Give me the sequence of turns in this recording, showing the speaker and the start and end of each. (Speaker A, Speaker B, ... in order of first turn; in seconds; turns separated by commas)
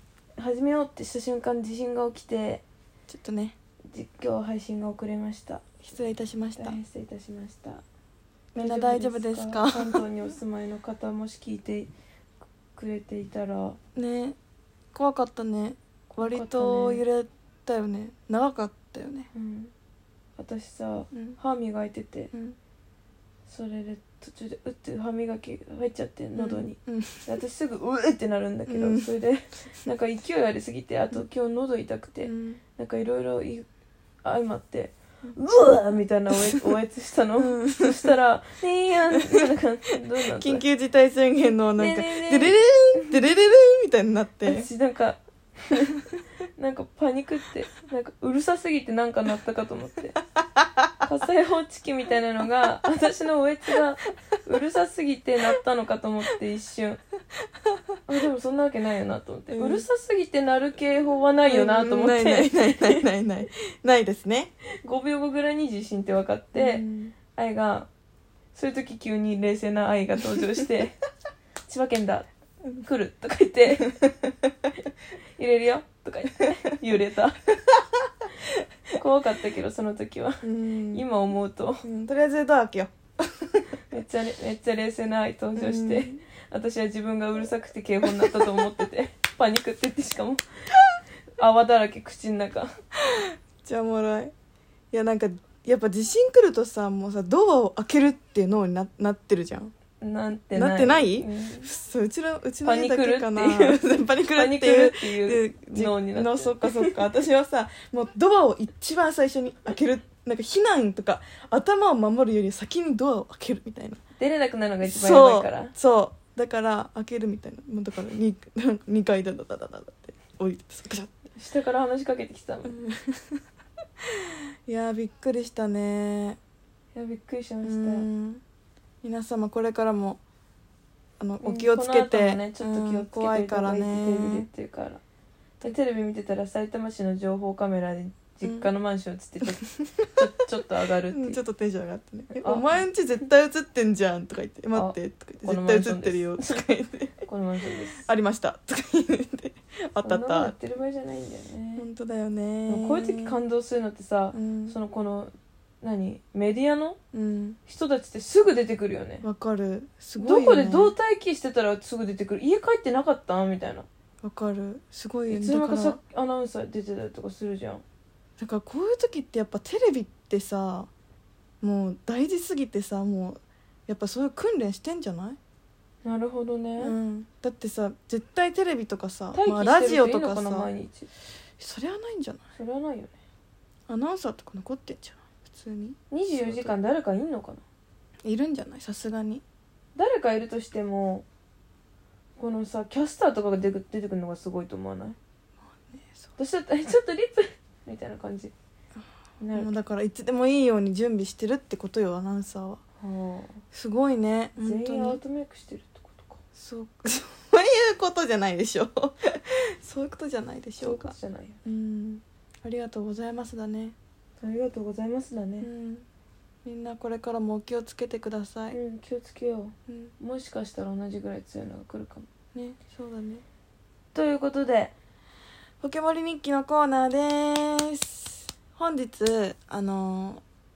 Speaker A: 0.4-2.6, Speaker B: 3.1-3.5, Speaker A: 3.9-5.6, Speaker B: 5.8-6.8, Speaker A: 6.5-7.8, Speaker B: 8.5-10.0, Speaker A: 8.6-11.9, Speaker A: 12.7-13.8, Speaker B: 13.9-14.4, Speaker B: 14.9-19.3, Speaker A: 16.1-17.0, Speaker A: 19.3-19.7, Speaker A: 20.4-22.3, Speaker B: 21.1-21.4, Speaker A: 23.5-33.7, Speaker B: 26.4-27.3, Speaker B: 28.7-29.1, Speaker B: 32.2-32.6, Speaker A: 34.2-40.6, Speaker B: 37.4-38.1, Speaker B: 40.4-44.7, Speaker A: 41.8-43.2, Speaker A: 44.4-50.2, Speaker A: 51.0-57.0, Speaker A: 58.1-63.0, Speaker B: 59.5-59.8, Speaker B: 61.5-64.5, Speaker A: 64.8-67.9, Speaker B: 66.5-67.2, Speaker A: 68.5-71.0, Speaker A: 71.7-74.0, Speaker A: 75.4-77.5, Speaker A: 79.0-81.8, Speaker B: 80.4-81.0, Speaker B: 81.8-83.6, Speaker A: 83.9-90.4, Speaker B: 85.6-86.2, Speaker A: 91.4-92.7, Speaker B: 93.0-94.3, Speaker B: 94.9-99.7, Speaker A: 100.0-101.7, Speaker B: 100.5-114.0, Speaker A: 102.6-107.0, Speaker A: 114.2-115.7, Speaker B: 114.8-121.1, Speaker A: 121.4-122.8, Speaker B: 122.7-123.4, Speaker B: 124.0-126.4, Speaker A: 126.9-128.1, Speaker B: 127.6-128.4, Speaker B: 129.0-130.2, Speaker B: 131.2-134.5, Speaker A: 131.4-135.0, Speaker A: 135.6-141.4, Speaker B: 138.4-138.7, Speaker B: 139.4-140.2, Speaker B: 141.1-147.2, Speaker A: 142.4-142.8, Speaker A: 144.7-146.6, Speaker A: 147.2-148.1, Speaker B: 148.0-150.5, Speaker A: 150.0-151.9, Speaker B: 151.8-153.3, Speaker A: 152.7-157.0, Speaker B: 154.3-154.8, Speaker B: 157.1-157.6, Speaker A: 157.7-159.2, Speaker B: 159.2-160.9, Speaker A: 160.2-163.9, Speaker B: 164.2-166.0, Speaker A: 165.3-167.8, Speaker B: 168.4-170.9, Speaker B: 171.6-175.4, Speaker A: 176.1-176.9, Speaker B: 176.8-180.7, Speaker A: 179.3-181.1, Speaker B: 181.6-182.4, Speaker A: 182.6-183.1, Speaker B: 183.9-186.7, Speaker A: 186.1-187.6, Speaker B: 188.2-189.4, Speaker A: 190.0-191.2, Speaker A: 192.4-195.2, Speaker B: 195.7-196.3, Speaker A: 196.4-198.5, Speaker A: 199.4-199.7, Speaker B: 199.5-202.8, Speaker A: 203.0-203.6, Speaker B: 203.7-205.2, Speaker A: 204.6-206.4, Speaker B: 206.6-211.1, Speaker A: 210.8-211.6, Speaker B: 211.7-214.0, Speaker A: 214.4-215.7, Speaker B: 215.6-216.1, Speaker B: 216.7-218.8, Speaker A: 218.7-222.3, Speaker B: 219.9-220.1, Speaker B: 222.6-223.4, Speaker A: 224.1-224.9, Speaker B: 225.8-230.4